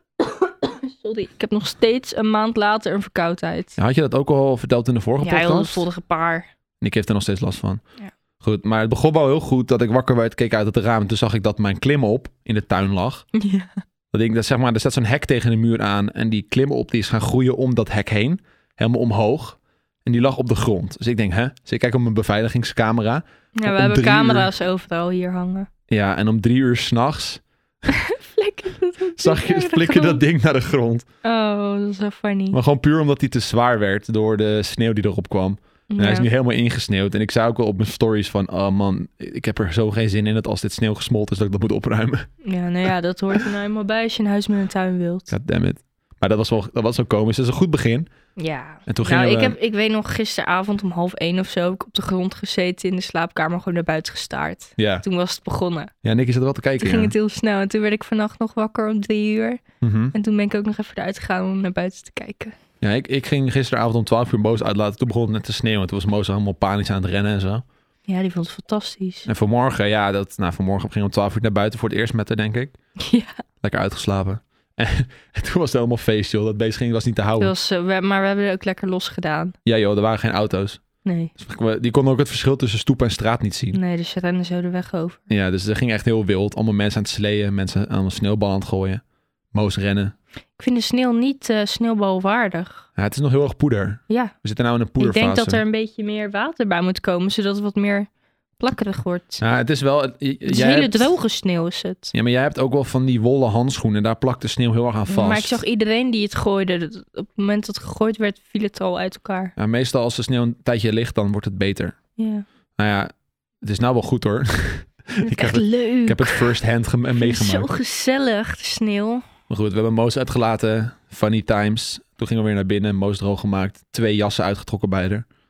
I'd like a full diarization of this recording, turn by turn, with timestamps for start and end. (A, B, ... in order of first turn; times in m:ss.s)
0:00.6-0:03.8 A
0:03.8-0:05.8 B
0:05.2-0:06.5 A
0:06.8-0:07.8 B
0:08.4-0:13.2 B
0:13.3-0:13.7 A
0:14.1-0:24.5 B
0:23.6-0:25.7 A
0:25.9-0:27.4 B
0:27.9-0:30.2 A
0:29.2-0:31.0 B
0:31.2-0:32.6 A
0:32.5-0:42.3 B
0:35.9-0:36.3 A
0:42.4-0:45.3 A
0:45.3-0:48.1 B
0:48.4-0:55.9 A
0:48.9-0:49.6 B
0:54.8-0:55.0 B
0:56.0-0:57.1 B
0:56.8-0:59.6 A
0:59.8-1:00.1 B
1:00.1-1:02.6 A
1:02.8-1:07.6 B
1:08.1-1:09.3 A
1:09.2-1:12.7 B
1:13.0-1:13.4 A
1:13.6-1:17.5 B
1:17.4-1:19.5 A
1:19.6-1:20.8 B
1:21.0-1:21.3 A
1:21.4-1:23.8 B
1:23.7-1:25.3 A
1:25.3-1:29.0 B
1:29.5-1:30.1 B
1:30.6-1:32.9 A
1:33.0-1:35.6 B
1:34.1-1:34.3 A
1:35.0-1:39.4 A
1:39.4-1:41.1 B
1:40.4-1:42.1 A
1:42.1-1:45.6 B
1:45.1-1:49.5 A
1:49.6-1:52.0 B
1:52.2-1:52.4 A
1:52.8-1:57.7 B
1:55.2-1:56.5 A
1:57.1-1:59.2 A
1:59.5-2:05.2 B